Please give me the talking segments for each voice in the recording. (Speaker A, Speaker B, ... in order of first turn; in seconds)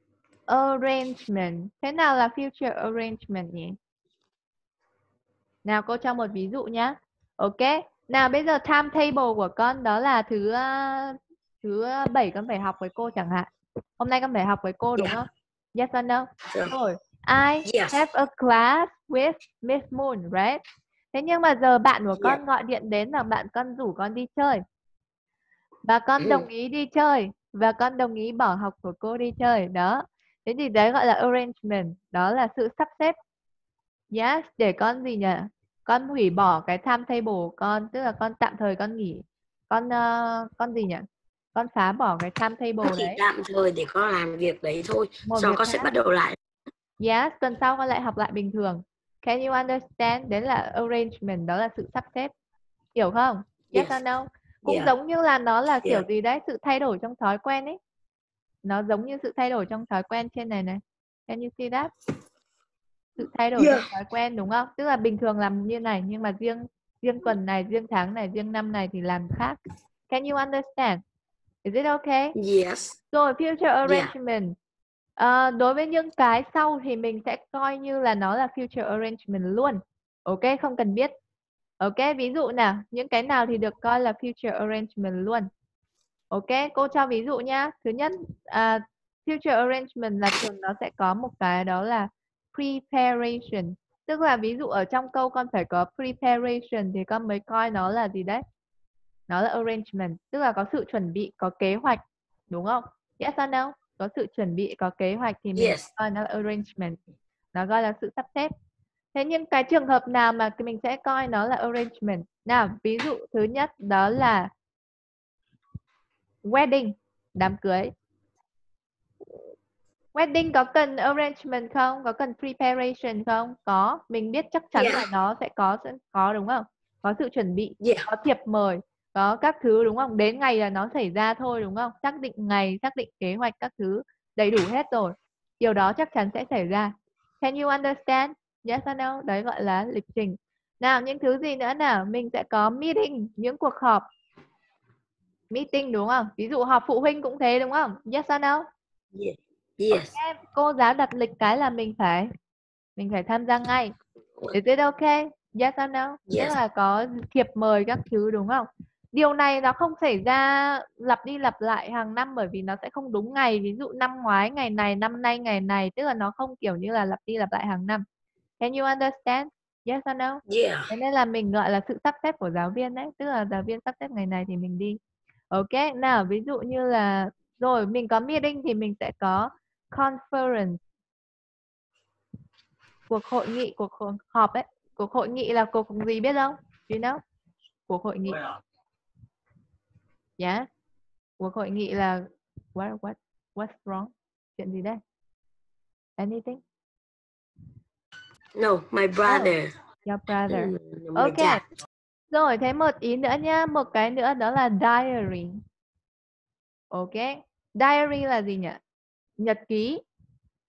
Speaker A: 0.5-3.8, 5.7-20.6, 21.1-24.6, 25.9-33.2, 34.1-43.2, 45.3-45.9, 47.0-52.3, 53.0-57.8, 58.6-61.9, 63.2-69.6, 70.1-71.0, 71.7-72.4, 73.1-74.6, 75.2-81.1, 81.8-85.5, 86.3-98.4, 99.3-107.0, 107.5-108.5, 109.1-114.5, 116.4-117.9, 120.2-144.1, 145.5-148.7, 150.0-152.3, 153.0-153.9, 154.5-168.0, 168.6-175.0, 175.5-180.8, 183.1-187.2, 187.9-188.5, 190.4-190.7, 191.4-195.0, 196.2-196.6, 199.2-199.5, 200.1-201.6, 202.3-205.6, 206.9-208.8, 209.4-210.0
Speaker B: 17.6-18.0, 22.2-22.4, 26.2-26.5, 42.8-46.4, 53.7-54.0, 54.7-54.9, 63.6-63.9, 72.4-73.0, 73.9-74.1, 105.6-105.9, 124.8-125.1, 127.8-128.1, 149.1-150.2, 156.3-156.6, 170.5-170.9, 198.6-199.7, 200.5-201.6